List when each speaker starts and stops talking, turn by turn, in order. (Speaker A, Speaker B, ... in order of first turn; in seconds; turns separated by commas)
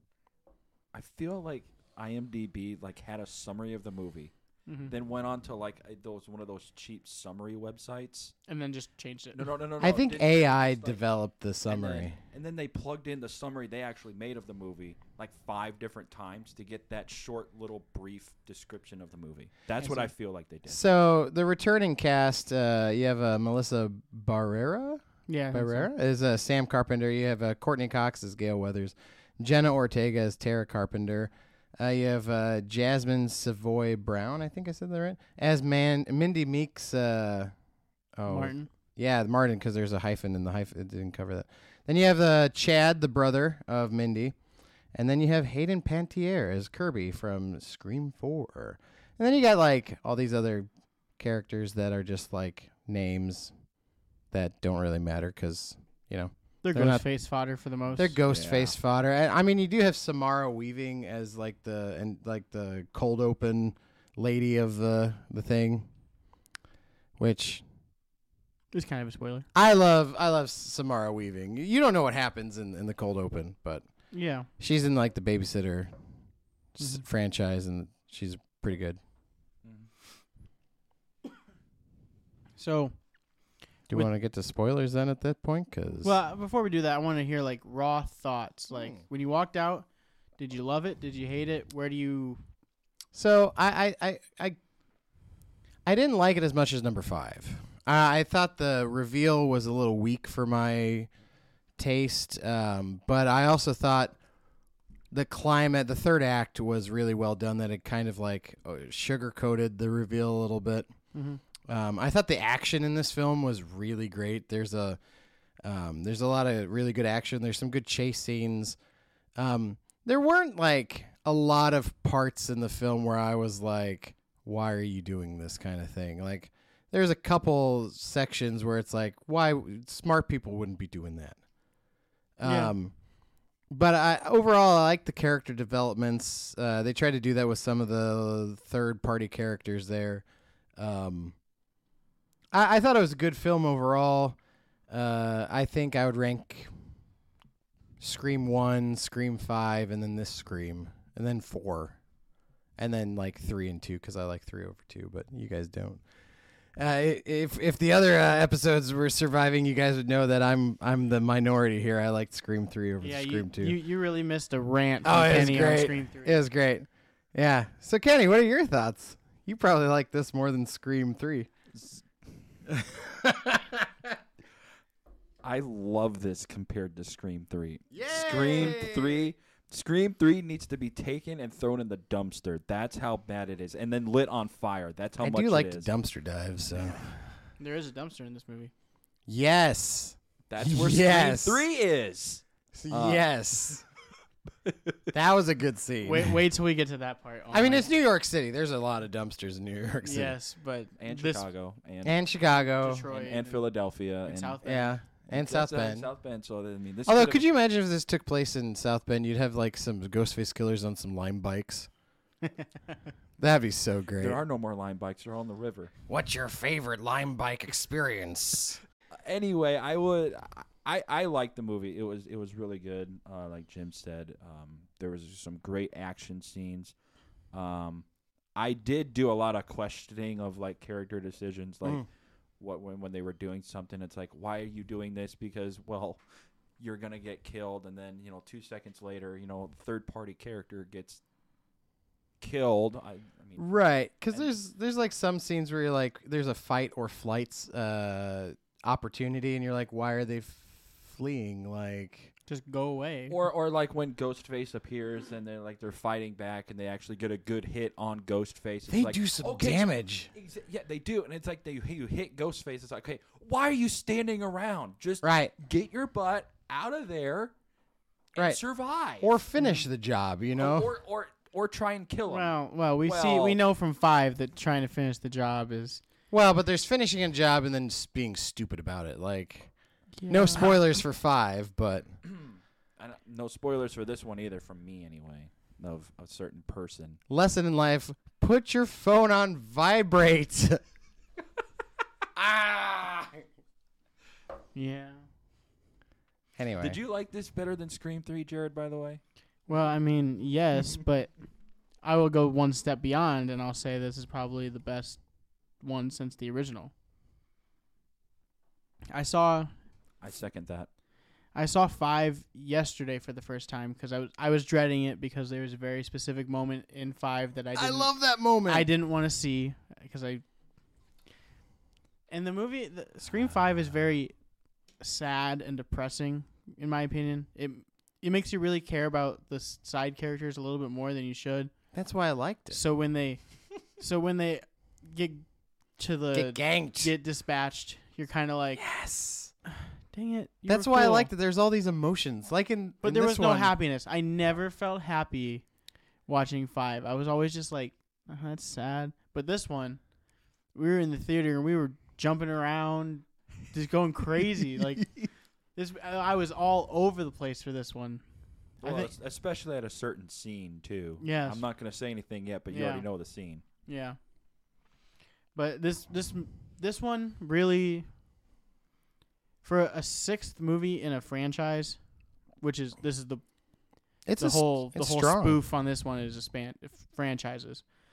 Speaker A: 0.9-4.3, Speaker B: 4.7-4.9, Speaker A: 4.9-8.3, Speaker B: 8.5-9.4, Speaker A: 9.3-11.0, Speaker C: 9.8-12.2, Speaker A: 11.7-20.8, Speaker B: 19.8-20.1, Speaker C: 20.7-37.5, Speaker B: 25.3-25.9, Speaker C: 38.2-44.4, Speaker B: 38.3-38.7, Speaker C: 44.9-53.5, Speaker C: 54.3-57.0, Speaker B: 56.6-58.2, Speaker C: 58.0-65.9, Speaker A: 58.3-58.8, Speaker C: 67.2-67.6, Speaker B: 68.7-69.5, Speaker C: 69.5-73.8, Speaker B: 74.1-74.5, Speaker C: 74.6-75.9, Speaker C: 76.8-79.0, Speaker B: 76.8-77.0, Speaker B: 82.6-83.0, Speaker C: 83.9-86.2, Speaker B: 86.0-89.9, Speaker C: 88.7-89.0, Speaker B: 90.4-92.4, Speaker C: 93.1-94.6, Speaker C: 95.9-101.1, Speaker C: 101.8-104.2, Speaker C: 105.1-110.9, Speaker B: 111.1-111.4, Speaker C: 111.7-115.0, Speaker C: 115.6-118.8, Speaker C: 119.4-131.4, Speaker C: 132.4-132.9, Speaker B: 132.4-132.8, Speaker C: 133.7-140.2, Speaker C: 140.8-141.4, Speaker C: 142.5-144.4, Speaker C: 144.9-146.7, Speaker C: 148.0-152.0, Speaker C: 152.8-156.0, Speaker C: 156.8-163.8, Speaker B: 163.0-166.4, Speaker C: 165.0-171.5, Speaker C: 172.7-173.9, Speaker A: 175.4-185.9, Speaker C: 177.9-179.3, Speaker C: 185.2-187.3, Speaker B: 187.6-188.7, Speaker C: 189.3-191.7, Speaker A: 190.5-193.2, Speaker C: 192.8-193.8, Speaker C: 195.1-196.3, Speaker B: 196.0-197.9, Speaker C: 197.5-200.3, Speaker B: 200.0-201.4, Speaker A: 201.0-202.2, Speaker C: 202.0-203.0, Speaker B: 202.8-203.6, Speaker A: 203.1-204.6, Speaker B: 204.3-205.0, Speaker C: 204.6-206.1, Speaker A: 205.3-207.5, Speaker C: 207.1-211.9, Speaker C: 213.4-214.4, Speaker A: 214.2-215.9, Speaker C: 216.1-218.8, Speaker A: 219.2-226.9, Speaker A: 227.5-232.1, Speaker A: 232.6-236.2, Speaker A: 236.8-241.2, Speaker A: 242.4-243.7, Speaker C: 243.6-252.3, Speaker B: 252.5-253.4, Speaker A: 253.3-267.5, Speaker C: 258.9-260.3, Speaker C: 265.2-265.5, Speaker C: 268.4-268.6, Speaker A: 268.4-269.3, Speaker C: 269.2-270.9, Speaker A: 270.6-273.6, Speaker B: 272.3-276.0, Speaker C: 276.3-279.7, Speaker B: 280.2-280.7, Speaker C: 280.3-282.1, Speaker A: 282.2-287.2, Speaker C: 287.3-290.8, Speaker C: 292.7-293.3, Speaker B: 294.8-295.2, Speaker C: 296.6-297.0, Speaker A: 296.8-299.2, Speaker B: 299.7-301.3, Speaker B: 302.0-305.2, Speaker B: 305.8-306.9, Speaker B: 309.1-309.7, Speaker A: 310.2-310.9, Speaker B: 311.6-318.1, Speaker C: 317.8-318.9, Speaker B: 318.7-320.4, Speaker B: 322.3-324.3, Speaker B: 325.0-331.7, Speaker C: 331.9-332.8, Speaker B: 332.7-333.4, Speaker B: 333.9-335.5, Speaker B: 336.0-338.8, Speaker C: 336.3-337.1, Speaker C: 338.8-339.5, Speaker B: 339.7-341.3, Speaker C: 340.7-343.8, Speaker B: 343.0-345.6, Speaker B: 346.3-350.0, Speaker B: 350.7-355.1, Speaker B: 355.8-358.2, Speaker B: 358.8-359.1, Speaker A: 358.8-363.6, Speaker B: 361.2-361.6, Speaker B: 362.7-363.1, Speaker B: 363.9-364.2, Speaker B: 365.6-368.1, Speaker B: 369.6-372.0, Speaker B: 372.6-373.4, Speaker C: 374.3-375.6, Speaker B: 374.4-377.8